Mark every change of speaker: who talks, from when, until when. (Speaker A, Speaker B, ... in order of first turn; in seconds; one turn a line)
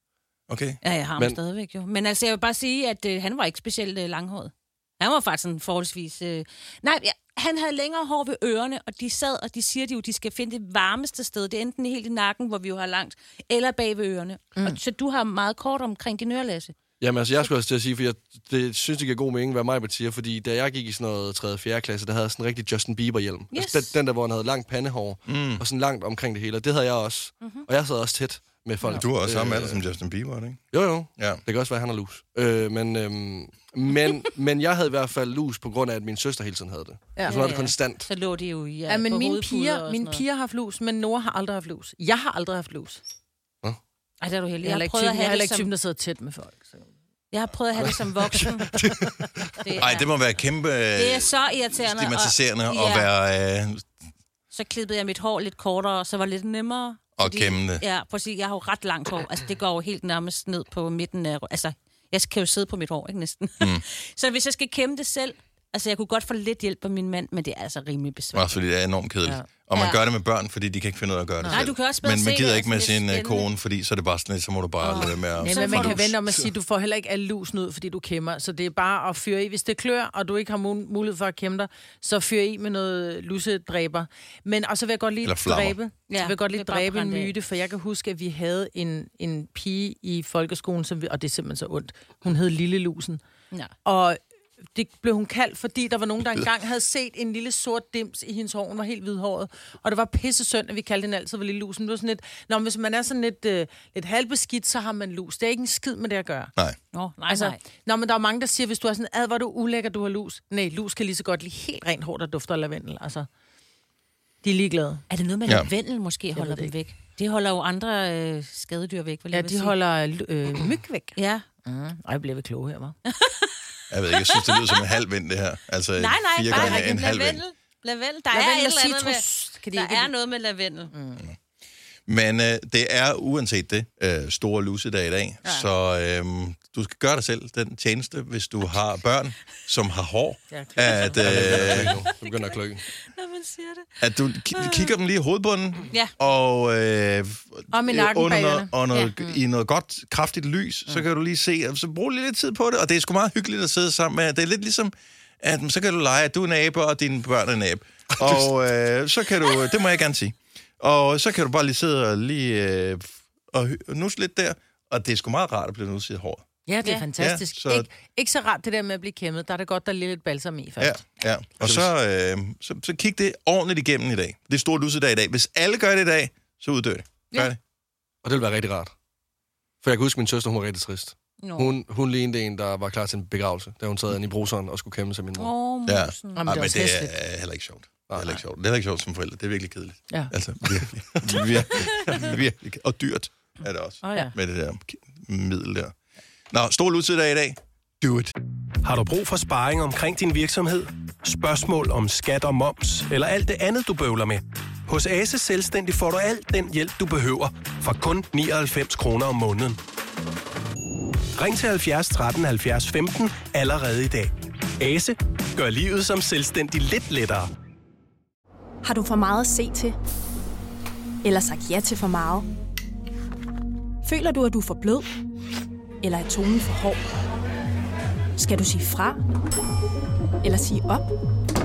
Speaker A: 0.5-0.8
Speaker B: 0.8-16.7
Speaker C: 14.5-14.8
Speaker D: 17.0-29.8
Speaker B: 23.5-23.9
Speaker A: 25.2-25.6
Speaker B: 27.4-27.6
Speaker A: 29.0-31.4
Speaker D: 30.7-38.1
Speaker B: 37.2-40.2
Speaker C: 38.9-43.0
Speaker B: 44.2-45.7
Speaker C: 44.6-46.9
Speaker B: 47.3-48.8
Speaker D: 47.8-49.0
Speaker B: 49.6-50.1
Speaker A: 49.8-53.9
Speaker B: 51.0-53.1
Speaker B: 54.5-68.5
Speaker A: 57.2-57.8
Speaker A: 68.3-76.1
Speaker B: 69.7-70.0
Speaker B: 71.5-73.5
Speaker B: 74.8-76.1
Speaker C: 75.4-93.2
Speaker A: 85.2-85.8
Speaker B: 86.1-87.3
Speaker C: 93.8-94.2
Speaker C: 94.7-106.5
Speaker B: 106.9-107.6
Speaker C: 107.3-113.3
Speaker C: 114.4-115.0
Speaker B: 115.1-119.7
Speaker C: 116.3-116.7
Speaker C: 119.3-123.0
Speaker B: 121.2-121.5
Speaker B: 123.1-123.5
Speaker A: 123.9-127.4
Speaker B: 124.3-124.7
Speaker B: 126.0-130.9
Speaker C: 128.3-130.1
Speaker C: 130.9-131.2
Speaker A: 132.1-142.0
Speaker C: 140.5-141.2
Speaker D: 141.2-142.8
Speaker B: 142.1-143.9
Speaker A: 144.0-166.4
Speaker B: 144.5-144.9
Speaker C: 147.7-149.3
Speaker C: 166.7-170.9
Speaker A: 167.2-167.9
Speaker A: 170.8-177.6
Speaker D: 171.6-171.9
Speaker D: 178.2-178.9
Speaker D: 179.8-185.5
Speaker B: 181.4-181.7
Speaker B: 185.4-186.6
Speaker A: 185.8-195.9
Speaker C: 186.3-187.2
Speaker D: 188.1-188.4
Speaker C: 194.0-194.3
Speaker A: 196.5-198.3
Speaker E: 198.8-209.8
Speaker E: 211.4-217.5
Speaker F: 218.8-219.9
Speaker F: 221.2-222.5
Speaker F: 224.0-225.1
Speaker F: 226.0-227.0
Speaker F: 228.4-229.2
Speaker F: 230.4-231.1